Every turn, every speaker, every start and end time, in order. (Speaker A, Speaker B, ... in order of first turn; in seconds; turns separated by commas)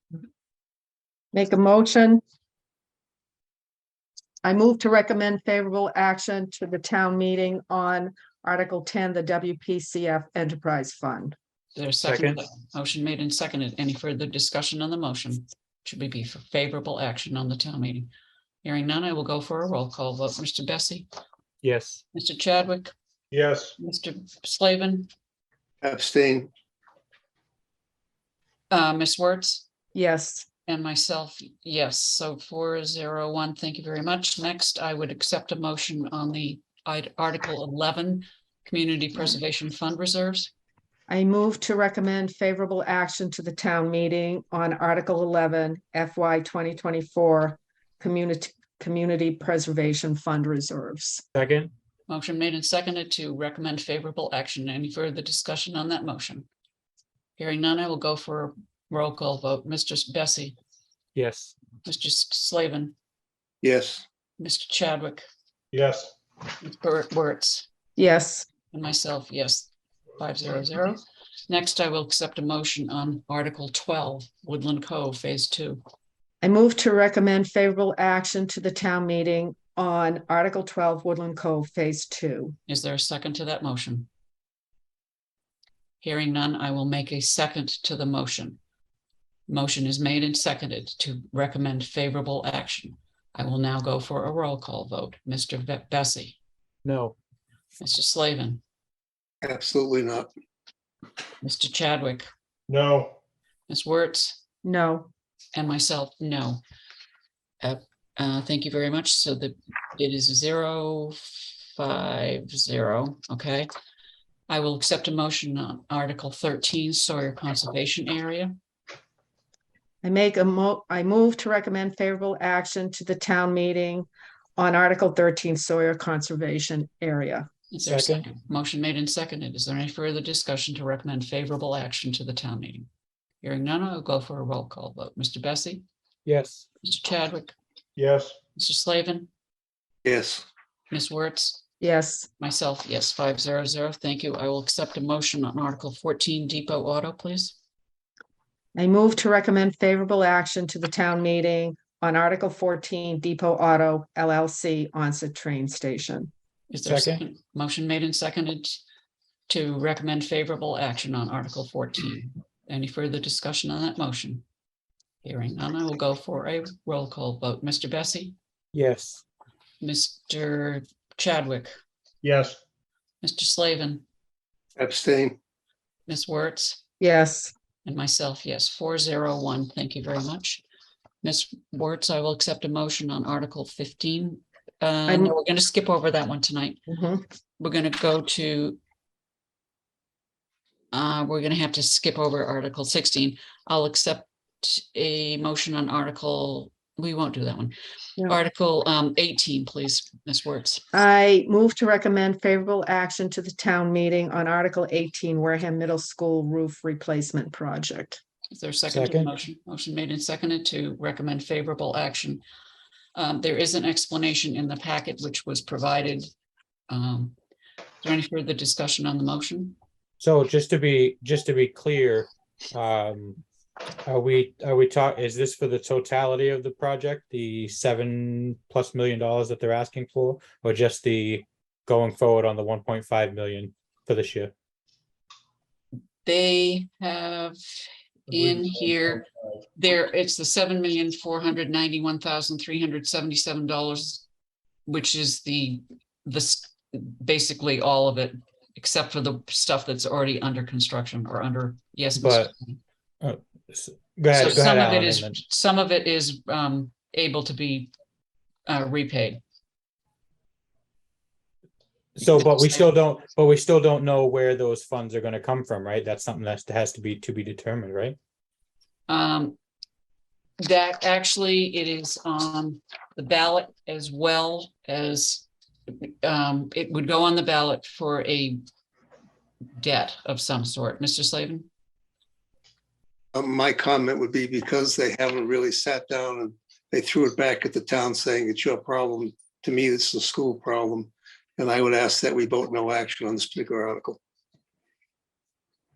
Speaker A: 1.3-2.2, Speaker A: 4.4-11.3, Speaker B: 11.8-18.1, Speaker C: 12.1-12.4, Speaker B: 18.6-21.1, Speaker C: 21.6-22.0, Speaker B: 22.1-22.9, Speaker D: 23.3-23.8, Speaker B: 23.8-25.1, Speaker E: 25.8-26.5, Speaker B: 28.7-29.7, Speaker A: 29.9-30.5, Speaker B: 30.7-40.5, Speaker A: 41.1-51.2, Speaker C: 51.3-51.7, Speaker B: 52.1-56.5, Speaker B: 57.4-60.5, Speaker C: 61.1-61.5, Speaker B: 61.9-63.0, Speaker E: 63.6-64.0, Speaker B: 64.4-65.2, Speaker D: 65.7-66.1, Speaker B: 66.6-67.7, Speaker A: 68.0-68.5, Speaker B: 68.7-75.8, Speaker A: 76.4-82.6, Speaker B: 82.7-84.1, Speaker B: 86.0-88.6, Speaker B: 89.5-96.4, Speaker C: 96.8-97.2, Speaker B: 97.8-98.6, Speaker E: 99.4-100.3, Speaker B: 101.4-102.3, Speaker D: 102.7-103.2, Speaker B: 103.7-104.4, Speaker A: 104.6-105.1, Speaker B: 105.5-106.6, Speaker B: 107.6-113.7, Speaker B: 114.5-118.5, Speaker A: 120.0-127.5, Speaker B: 127.7-132.9, Speaker C: 127.9-128.3, Speaker B: 133.4-135.8, Speaker C: 136.3-136.7, Speaker B: 136.8-137.6, Speaker D: 138.0-138.3, Speaker B: 138.6-139.3, Speaker E: 140.1-140.4, Speaker B: 140.9-141.6, Speaker A: 141.8-142.3, Speaker B: 142.4-147.6, Speaker A: 148.8-156.3, Speaker B: 156.7-158.8, Speaker C: 156.8-157.2, Speaker B: 159.5-164.4, Speaker B: 165.2-168.3, Speaker C: 168.7-169.2, Speaker B: 169.8-171.8, Speaker D: 172.2-172.6, Speaker B: 173.2-174.0, Speaker E: 174.8-175.4, Speaker B: 176.1-176.8, Speaker A: 177.0-177.5, Speaker B: 177.8-180.6, Speaker B: 181.2-186.8, Speaker A: 185.1-185.3, Speaker A: 186.9-187.2, Speaker B: 187.6-188.8, Speaker B: 190.9-197.8, Speaker B: 198.3-200.8, Speaker A: 200.9-208.2, Speaker B: 208.5-212.4, Speaker C: 208.9-209.3, Speaker B: 213.2-216.3, Speaker B: 216.9-217.4, Speaker B: 218.0-219.8, Speaker C: 220.2-223.4, Speaker C: 224.1-234.5, Speaker B: 236.2-237.6, Speaker B: 238.3-244.2, Speaker B: 244.9-252.7, Speaker C: 252.2-252.5, Speaker C: 253.2-255.4, Speaker B: 254.3-257.9, Speaker B: 258.7-259.4, Speaker C: 262.2-268.2, Speaker B: 262.2-262.8, Speaker B: 269.1-269.6, Speaker B: 270.6-275.5, Speaker B: 276.0-278.6, Speaker B: 279.8-281.7, Speaker E: 283.3-294.2